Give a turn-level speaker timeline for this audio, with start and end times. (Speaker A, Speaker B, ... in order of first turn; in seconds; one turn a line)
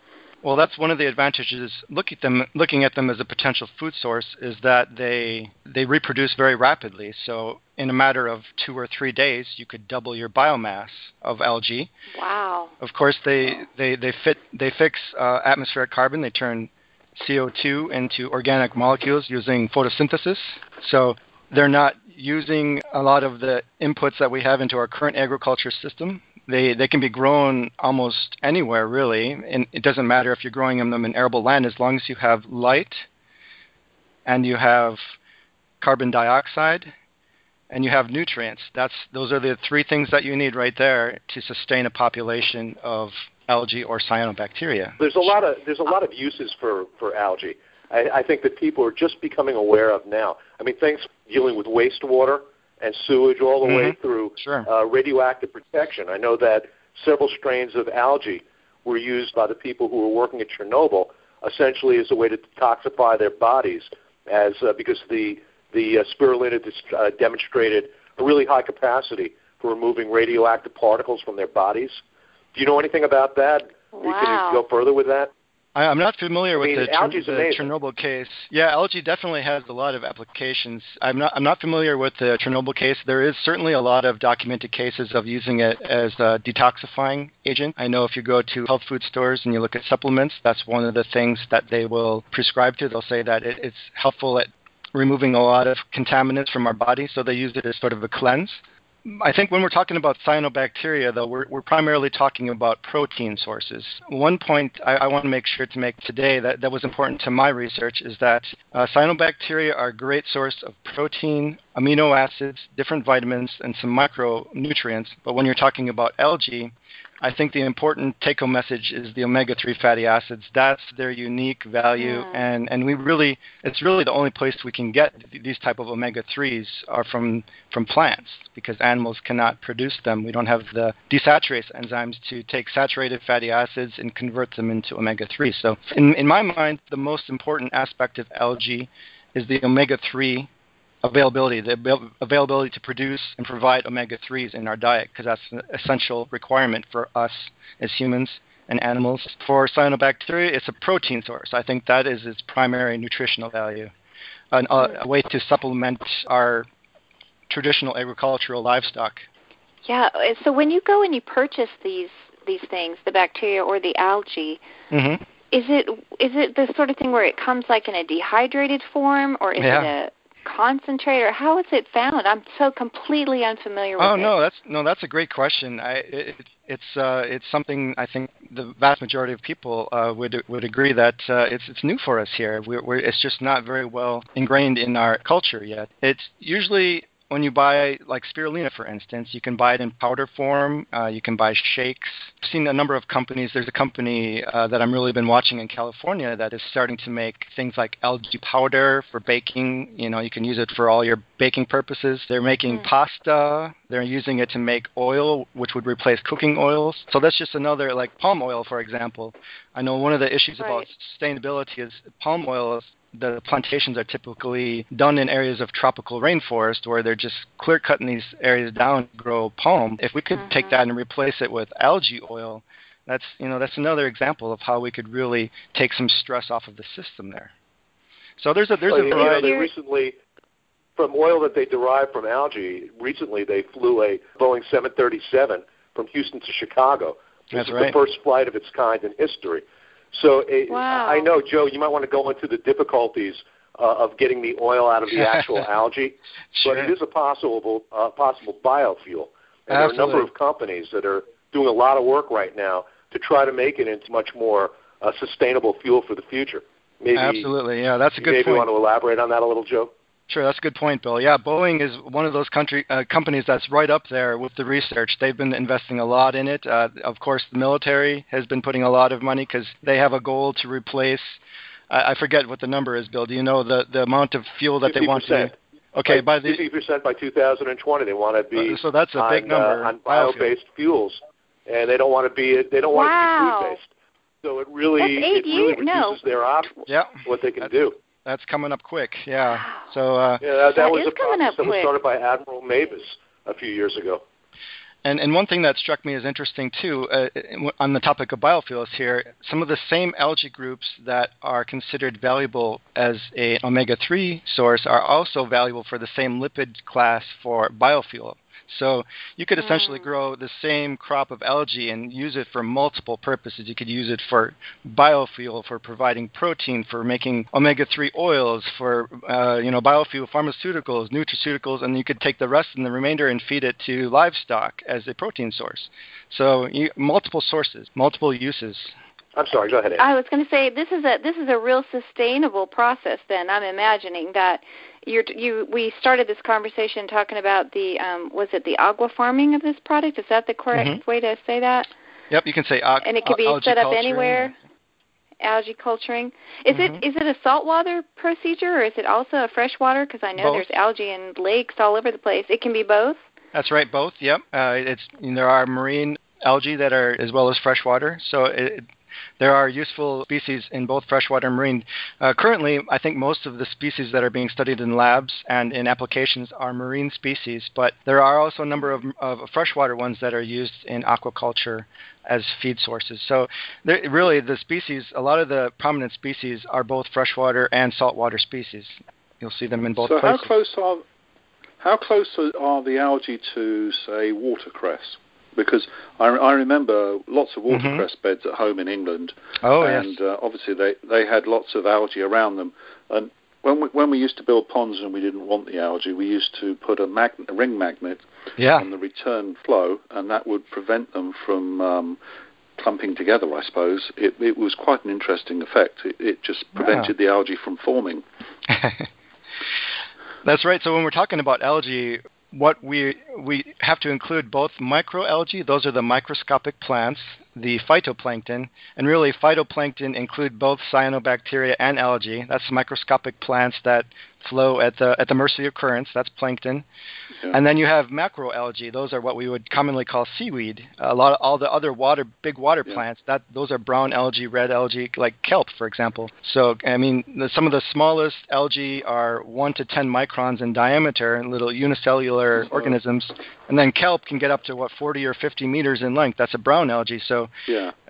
Speaker A: 0.4-11.9
Speaker B: 12.1-12.7
Speaker A: 12.8-33.1
Speaker A: 34.3-35.1
Speaker A: 35.8-36.9
Speaker A: 37.7-45.0
Speaker C: 45.0-72.0
Speaker A: 53.6-54.7
Speaker C: 72.5-75.3
Speaker B: 73.9-74.6
Speaker A: 75.8-140.5
Speaker C: 76.6-77.7
Speaker B: 122.0-122.4
Speaker A: 141.0-153.9
Speaker A: 154.5-156.7
Speaker A: 157.5-159.2
Speaker B: 159.8-164.6
Speaker A: 164.9-165.2
Speaker B: 165.5-174.3
Speaker A: 169.6-169.9
Speaker A: 174.0-227.5
Speaker B: 210.6-210.9
Speaker B: 220.3-220.8
Speaker A: 228.4-229.6
Speaker C: 228.9-230.2
Speaker B: 229.1-229.7
Speaker C: 231.0-257.5
Speaker A: 237.5-238.0
Speaker B: 240.7-241.3
Speaker A: 246.5-246.9
Speaker A: 249.7-250.3
Speaker A: 257.2-258.7
Speaker C: 258.2-259.9
Speaker A: 260.3-276.6
Speaker C: 274.8-275.6
Speaker C: 276.1-283.9
Speaker A: 278.6-280.5
Speaker B: 282.9-283.8
Speaker C: 284.4-288.0
Speaker B: 285.0-286.2
Speaker A: 286.9-287.7
Speaker A: 288.2-290.4
Speaker B: 289.5-289.9
Speaker C: 290.4-294.2
Speaker B: 290.8-291.9
Speaker A: 295.1-328.9
Speaker B: 309.6-310.1
Speaker C: 329.4-330.0
Speaker B: 330.0-341.9
Speaker A: 340.7-341.0
Speaker A: 342.3-344.5
Speaker B: 343.0-344.5
Speaker B: 345.4-353.2
Speaker A: 346.7-347.0
Speaker A: 350.4-350.7
Speaker A: 353.5-358.9
Speaker A: 359.4-380.5
Speaker D: 380.0-381.0
Speaker D: 381.8-402.2
Speaker A: 387.7-388.1
Speaker A: 389.6-390.1
Speaker A: 398.6-398.9
Speaker D: 402.8-408.2
Speaker A: 406.8-407.1
Speaker A: 408.7-409.1
Speaker A: 410.4-426.9
Speaker A: 427.5-447.5
Speaker D: 442.6-442.9
Speaker D: 447.7-447.9